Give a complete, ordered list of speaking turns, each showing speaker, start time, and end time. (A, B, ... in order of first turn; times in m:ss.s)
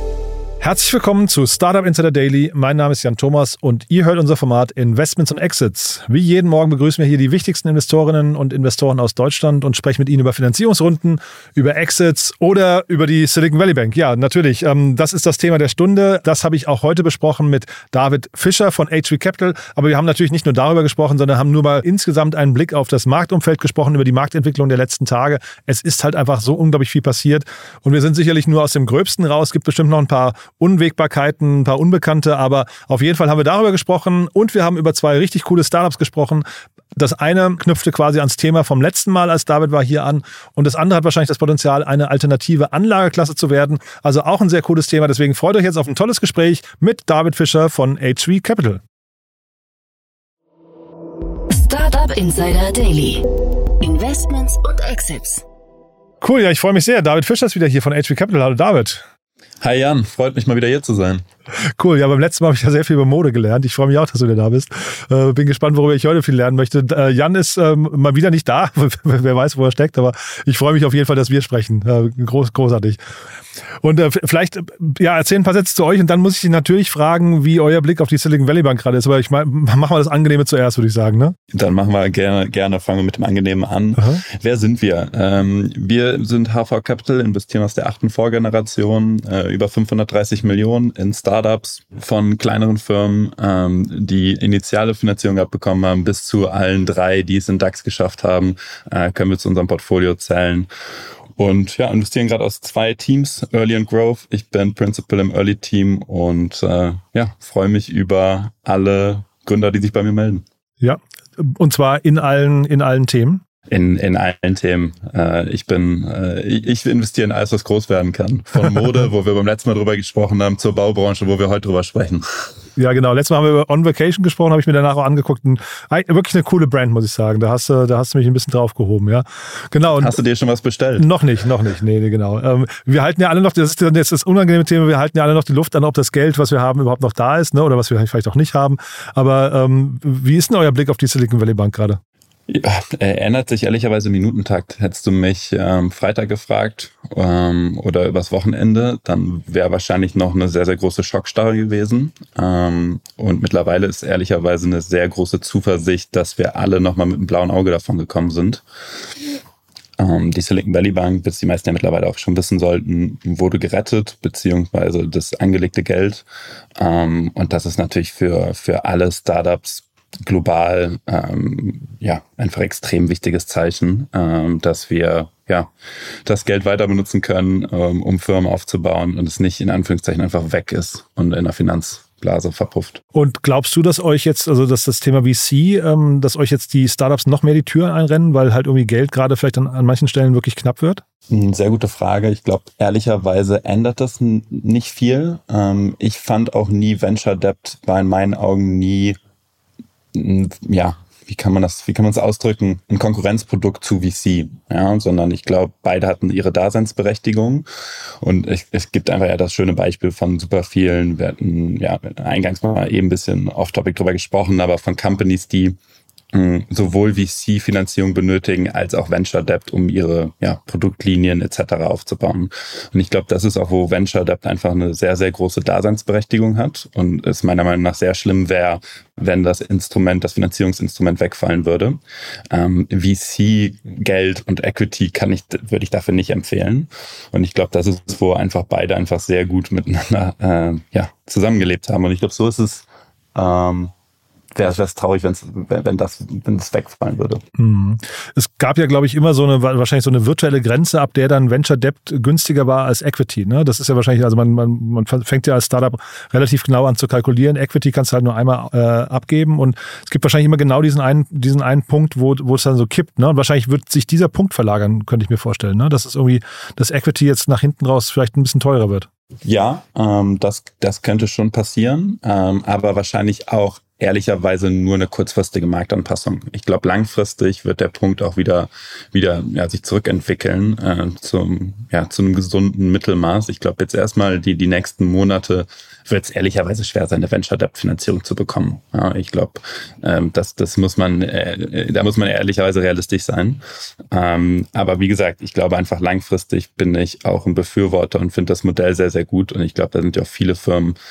0:00.6-0:36.4 A
0:37.0-0:48.8 A
0:51.5-0:53.2 B
0:53.8-0:55.4 B
0:56.2-0:59.0 A
0:59.6-1:01.2 C
1:01.8-1:13.0 A
1:13.8-1:21.4 A
1:21.5-1:40.7 C
1:24.0-1:24.2 A
1:41.4-1:50.4 C
1:50.8-1:53.4 A
1:53.7-2:02.5 C
2:02.8-2:10.2 A
2:09.9-2:11.1 C
2:11.0-2:22.0 A
2:22.5-2:38.6 C
2:40.0-2:46.2 C
2:46.8-3:03.0 C
3:03.2-3:11.0 A
3:11.3-3:19.2 C
3:20.1-3:27.6 C
3:28.2-3:35.8 C
3:36.3-3:52.0 C
3:52.5-4:03.9 C
4:04.6-4:07.4 C
4:07.6-4:29.1 A
4:29.4-5:01.0 C